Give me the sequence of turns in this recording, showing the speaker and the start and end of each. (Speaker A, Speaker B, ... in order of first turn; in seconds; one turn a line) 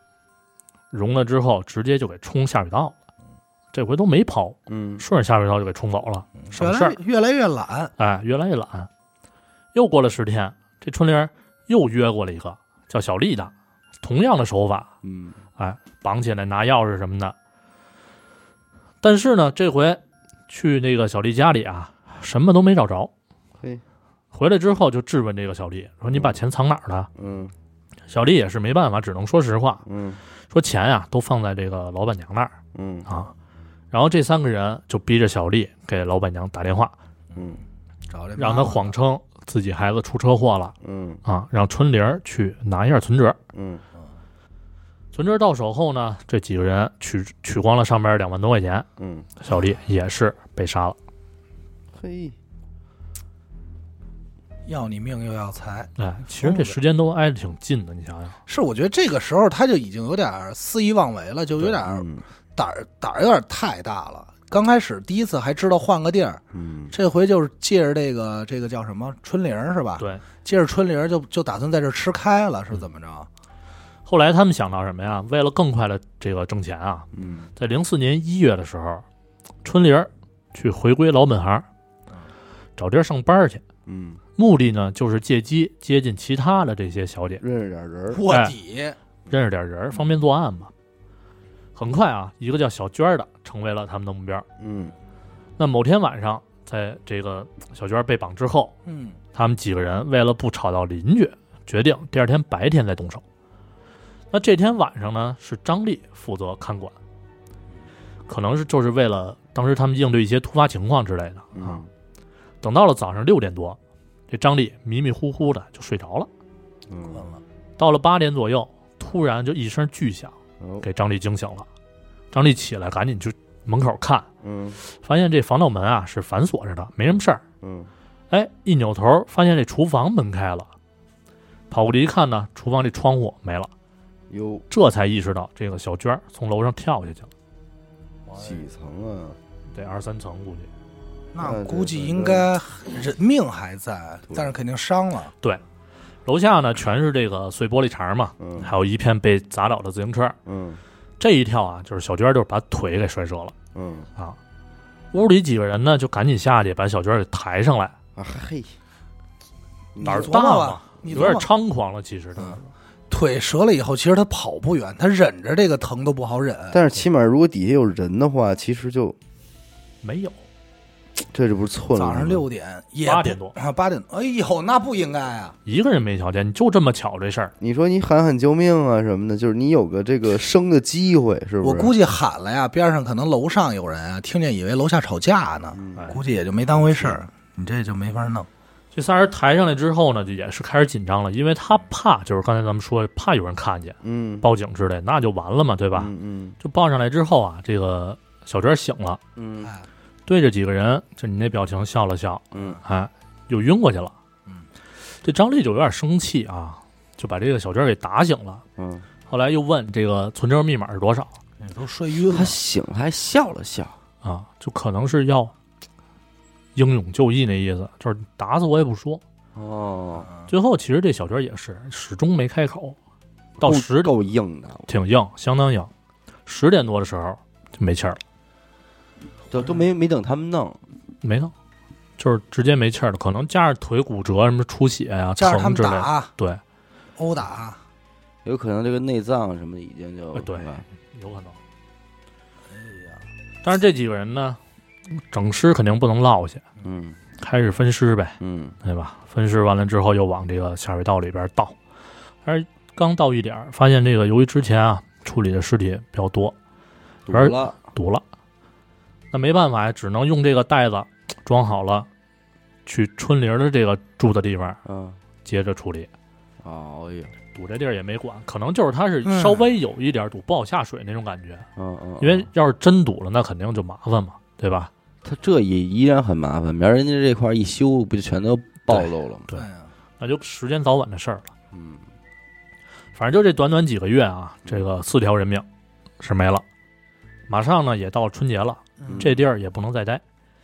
Speaker A: 0.9-2.9
Speaker A: 3.7-7.0
Speaker B: 4.7-5.0
Speaker C: 6.4-7.9
Speaker A: 8.0-8.9
Speaker A: 9.7-14.9
Speaker B: 15.0-15.4
Speaker A: 15.6-17.3
Speaker A: 19.0-23.1
Speaker A: 24.3-27.1
Speaker B: 27.1-27.5
Speaker A: 28.1-29.8
Speaker B: 29.8-30.2
Speaker A: 30.5-32.5
Speaker B: 32.7-33.1
Speaker A: 33.9-36.9
Speaker B: 37.4-37.6
Speaker C: 38.1-38.9
Speaker A: 38.4-43.4
Speaker B: 40.8-41.2
Speaker B: 43.5-43.8
Speaker A: 45.1-48.9
Speaker B: 49.0-49.3
Speaker A: 49.4-51.0
Speaker B: 51.9-52.4
Speaker C: 54.6-56.7
Speaker A: 56.0-58.4
Speaker C: 58.5-73.3
Speaker B: 61.8-62.2
Speaker B: 66.5-66.9
Speaker A: 74.0-79.0
Speaker B: 77.1-77.5
Speaker A: 79.6-81.7
Speaker A: 82.8-83.6
Speaker B: 83.8-84.2
Speaker A: 84.4-87.4
Speaker B: 87.4-88.2
Speaker C: 88.1-89.0
Speaker A: 88.3-88.5
Speaker A: 89.3-90.7
Speaker A: 91.7-94.4
Speaker B: 94.6-94.9
Speaker A: 95.6-98.7
Speaker C: 98.8-99.2
Speaker A: 99.3-103.2
Speaker A: 104.3-107.0
Speaker A: 108.3-111.8
Speaker B: 111.5-111.9
Speaker A: 112.6-113.8
Speaker A: 114.3-116.3
Speaker B: 116.9-117.3
Speaker C: 117.1-117.4
Speaker A: 117.8-121.7
Speaker B: 120.6-120.8
Speaker A: 122.3-124.3
Speaker B: 124.4-124.8
Speaker A: 124.8-127.4
Speaker B: 127.6-127.9
Speaker A: 128.3-130.7
Speaker A: 131.7-133.7
Speaker B: 134.3-134.7
Speaker A: 134.7-137.3
Speaker C: 138.3-138.7
Speaker B: 138.4-139.4
Speaker A: 139.7-140.7
Speaker C: 141.3-145.3
Speaker B: 141.4-142.5
Speaker A: 146.2-150.4
Speaker B: 148.4-148.7
Speaker B: 150.4-150.8
Speaker A: 151.2-153.5
Speaker B: 153.7-154.1
Speaker A: 155.1-157.9
Speaker B: 158.2-158.8
Speaker B: 159.9-160.4
Speaker C: 160.0-161.5
Speaker A: 160.0-162.7
Speaker B: 161.1-161.4
Speaker C: 163.1-166.8
Speaker B: 166.7-169.2
Speaker A: 170.0-170.4
Speaker B: 171.3-172.4
Speaker C: 171.9-175.5
Speaker A: 173.0-173.5
Speaker A: 175.7-177.5
Speaker B: 177.6-181.9
Speaker C: 181.6-188.5
Speaker B: 185.7-186.2
Speaker B: 186.8-187.2
Speaker A: 188.9-199.2
Speaker B: 194.0-194.5
Speaker B: 195.9-196.6
Speaker B: 199.3-199.7
Speaker C: 199.6-199.9
Speaker A: 200.3-204.2
Speaker B: 202.5-202.8
Speaker A: 205.2-208.6
Speaker B: 208.8-209.1
Speaker A: 209.3-211.3
Speaker C: 211.6-212.6
Speaker B: 212.3-213.9
Speaker A: 214.2-215.5
Speaker A: 216.8-219.2
Speaker B: 219.5-220.3
Speaker A: 220.5-223.0
Speaker A: 223.6-224.1
Speaker B: 223.6-224.9
Speaker A: 224.9-225.9
Speaker A: 226.4-228.2
Speaker B: 229.5-230.8
Speaker A: 231.2-231.5
Speaker A: 232.2-236.6
Speaker C: 235.3-236.3
Speaker C: 237.2-237.8
Speaker B: 238.4-240.8
Speaker A: 240.3-241.6
Speaker C: 242.7-243.2
Speaker A: 243.6-244.6
Speaker A: 245.1-246.6
Speaker B: 246.8-247.2
Speaker A: 247.4-251.7
Speaker B: 248.4-248.8
Speaker A: 252.4-256.5
Speaker B: 257.2-257.8
Speaker A: 257.3-258.2
Speaker A: 259.3-262.1
Speaker A: 262.9-264.8
Speaker B: 264.8-265.2
Speaker A: 265.4-266.1
Speaker B: 266.6-267.3
Speaker A: 267.5-271.7
Speaker C: 269.2-269.6
Speaker B: 271.8-272.5
Speaker A: 272.2-274.9
Speaker B: 275.2-279.5
Speaker A: 278.9-279.6
Speaker C: 279.5-279.9
Speaker A: 280.2-281.5
Speaker B: 281.7-282.1
Speaker A: 283.1-285.6
Speaker A: 286.2-286.6
Speaker A: 287.5-290.2
Speaker C: 289.0-289.3
Speaker B: 289.1-289.4